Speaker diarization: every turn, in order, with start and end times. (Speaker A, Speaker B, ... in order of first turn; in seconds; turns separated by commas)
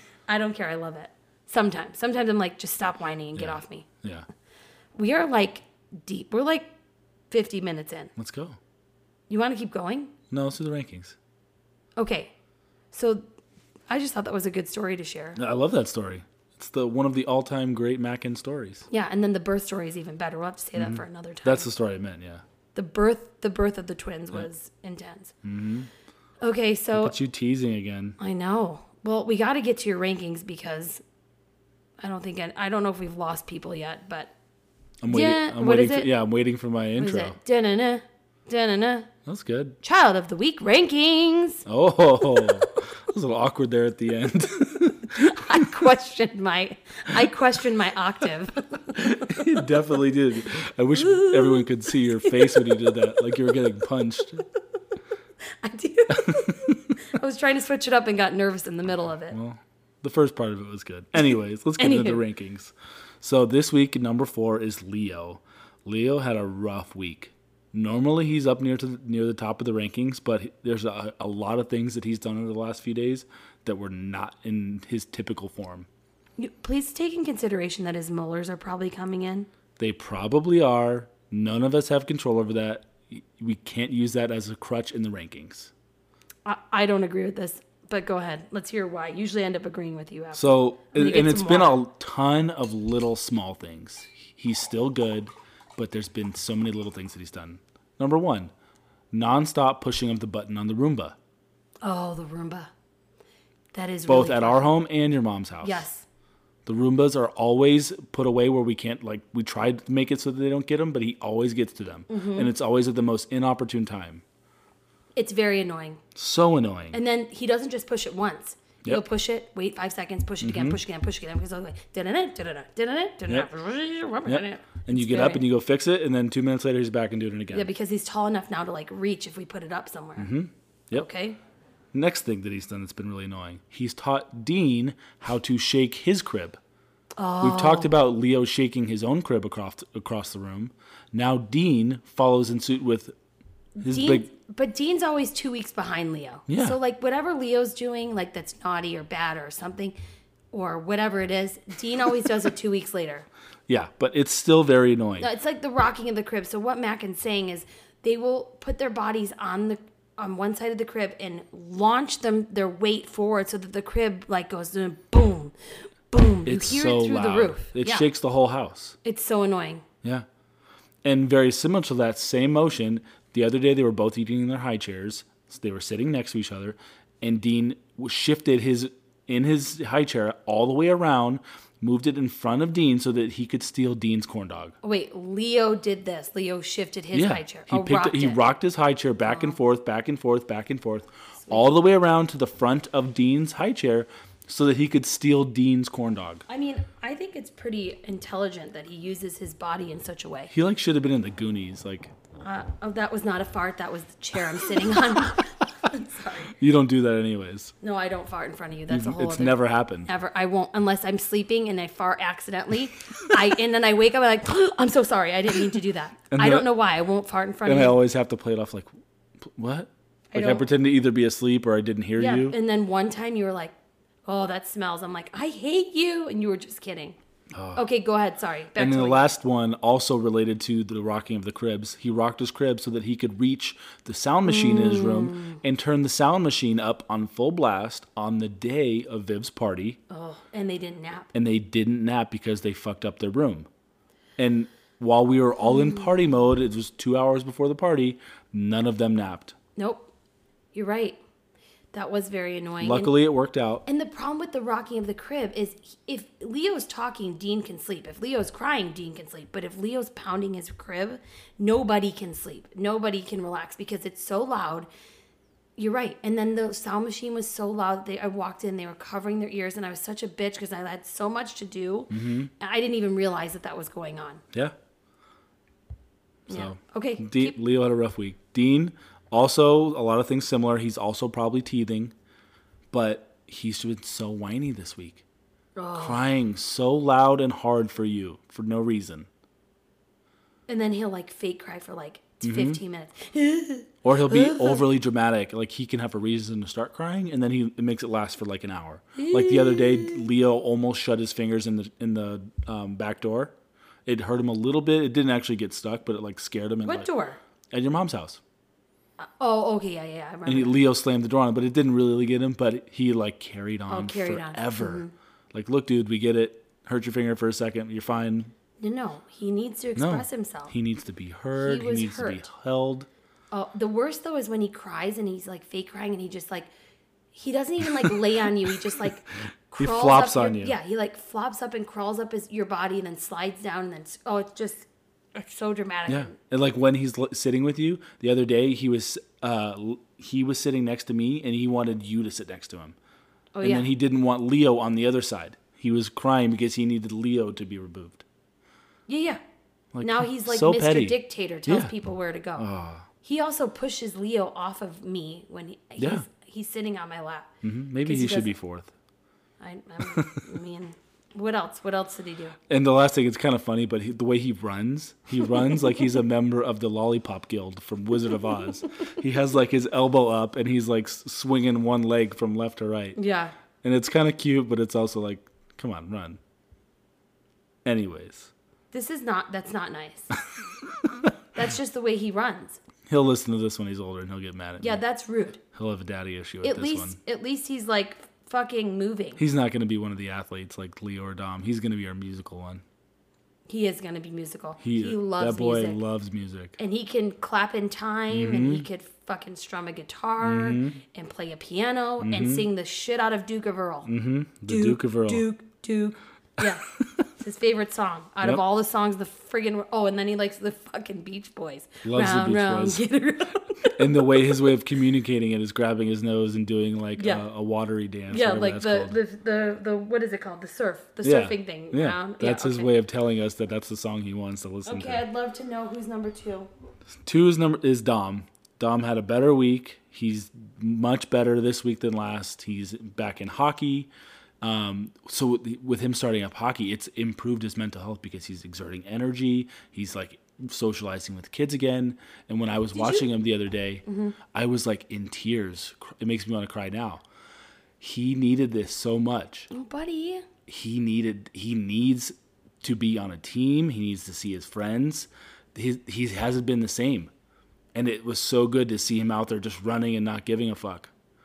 Speaker A: 0.3-3.9, Speaker B: 3.4-4.2, Speaker A: 5.0-6.7, Speaker A: 7.3-8.1, Speaker B: 8.2-8.6, Speaker A: 9.3-10.1, Speaker B: 10.3-11.2, Speaker A: 12.0-12.3, Speaker A: 12.9-13.2, Speaker A: 13.9-15.4, Speaker B: 15.3-18.9, Speaker A: 18.9-21.7, Speaker B: 20.8-22.4, Speaker A: 22.7-25.3, Speaker B: 25.4-25.9, Speaker A: 26.4-27.1, Speaker B: 26.9-28.2, Speaker A: 28.2-31.0, Speaker A: 32.0-34.3, Speaker B: 35.0-37.4, Speaker A: 35.1-36.1, Speaker A: 37.0-39.1, Speaker B: 39.2-39.8, Speaker A: 39.8-41.6, Speaker B: 41.7-45.7, Speaker A: 45.1-49.4, Speaker B: 48.9-54.4, Speaker A: 50.9-53.1, Speaker A: 55.6-59.4, Speaker B: 56.2-56.8, Speaker B: 59.3-75.9, Speaker A: 61.8-62.2, Speaker A: 76.4-79.5, Speaker B: 79.8-85.7, Speaker A: 86.4-91.8, Speaker B: 90.3-98.5, Speaker B: 99.1-101.2, Speaker A: 101.8-102.7, Speaker A: 103.7-104.7, Speaker B: 104.1-105.8, Speaker A: 105.6-106.0, Speaker B: 106.7-114.2, Speaker A: 112.1-112.5, Speaker A: 115.2-116.0, Speaker B: 116.2-117.0, Speaker A: 116.9-125.4, Speaker B: 120.4-120.8, Speaker B: 124.2-127.7, Speaker A: 127.5-130.3, Speaker B: 130.2-131.1, Speaker A: 130.9-131.4, Speaker B: 131.9-136.6, Speaker A: 137.2-137.9, Speaker B: 137.4-143.1, Speaker A: 143.8-149.9, Speaker B: 143.8-144.3, Speaker B: 146.5-146.8, Speaker A: 150.5-153.3, Speaker B: 153.7-155.3, Speaker A: 155.2-165.5, Speaker A: 166.1-168.1, Speaker B: 166.4-168.9, Speaker A: 169.0-169.8, Speaker B: 171.0-184.8, Speaker A: 184.8-188.4, Speaker B: 187.1-196.4, Speaker A: 189.2-189.6, Speaker A: 191.4-191.8, Speaker A: 196.5-200.5, Speaker B: 200.5-202.1, Speaker A: 202.4-206.5, Speaker B: 206.5-207.7, Speaker A: 207.8-218.0, Speaker B: 208.9-210.1, Speaker B: 216.3-216.8, Speaker B: 217.7-218.9, Speaker B: 219.4-222.5, Speaker A: 220.3-220.7, Speaker A: 222.2-223.7, Speaker A: 224.2-227.2, Speaker B: 227.5-227.8, Speaker A: 227.7-229.2, Speaker B: 228.8-240.0, Speaker A: 234.4-235.6, Speaker A: 240.1-241.3, Speaker B: 241.3-243.7, Speaker B: 244.4-249.5, Speaker A: 249.8-250.1, Speaker A: 250.7-251.2, Speaker A: 251.9-253.1, Speaker B: 252.8-253.8, Speaker A: 253.8-264.9, Speaker A: 265.8-274.4, Speaker B: 272.1-272.5, Speaker A: 276.5-277.6, Speaker B: 276.5-282.1, Speaker B: 282.9-285.2, Speaker A: 285.8-286.2, Speaker B: 286.0-289.3, Speaker A: 290.7-294.8, Speaker B: 292.4-292.8, Speaker B: 294.0-303.5, Speaker A: 299.1-300.2, Speaker B: 304.1-307.1, Speaker A: 306.8-307.4, Speaker B: 307.7-308.4, Speaker A: 309.2-310.8, Speaker B: 310.5-318.5, Speaker A: 313.9-315.1, Speaker A: 318.8-320.7, Speaker B: 319.9-323.1, Speaker A: 321.6-322.5, Speaker A: 323.5-326.7, Speaker A: 327.3-336.4, Speaker B: 329.7-330.8, Speaker B: 336.1-342.9, Speaker A: 343.5-343.9, Speaker B: 343.6-348.2, Speaker A: 349.1-349.4, Speaker B: 349.9-351.9, Speaker A: 350.0-352.7, Speaker B: 352.6-353.1, Speaker A: 353.2-357.5, Speaker B: 356.0-356.2, Speaker B: 357.6-358.9, Speaker A: 358.0-358.5, Speaker A: 359.6-362.6, Speaker B: 360.0-360.4, Speaker B: 362.7-373.2, Speaker A: 373.1-373.5, Speaker B: 373.8-376.4, Speaker B: 377.8-378.5, Speaker A: 378.9-380.4, Speaker A: 381.5-382.8, Speaker B: 383.1-385.0, Speaker A: 384.8-385.6, Speaker B: 385.7-387.2, Speaker A: 386.6-389.4, Speaker B: 389.4-392.8, Speaker A: 393.7-396.0, Speaker B: 394.8-396.8, Speaker A: 396.8-404.1, Speaker B: 398.3-398.9, Speaker B: 400.4-401.0, Speaker B: 402.2-402.7, Speaker B: 404.1-405.4, Speaker A: 404.7-414.5, Speaker B: 406.6-407.0, Speaker B: 412.0-413.0, Speaker B: 413.9-419.1, Speaker A: 417.2-417.4, Speaker A: 418.3-422.9, Speaker B: 421.2-425.2, Speaker A: 424.9-426.7, Speaker B: 427.2-434.1, Speaker B: 434.6-447.2, Speaker A: 442.9-443.3, Speaker A: 444.1-444.4, Speaker B: 448.0-449.7, Speaker A: 449.7-450.4, Speaker B: 450.7-457.3, Speaker B: 457.9-461.1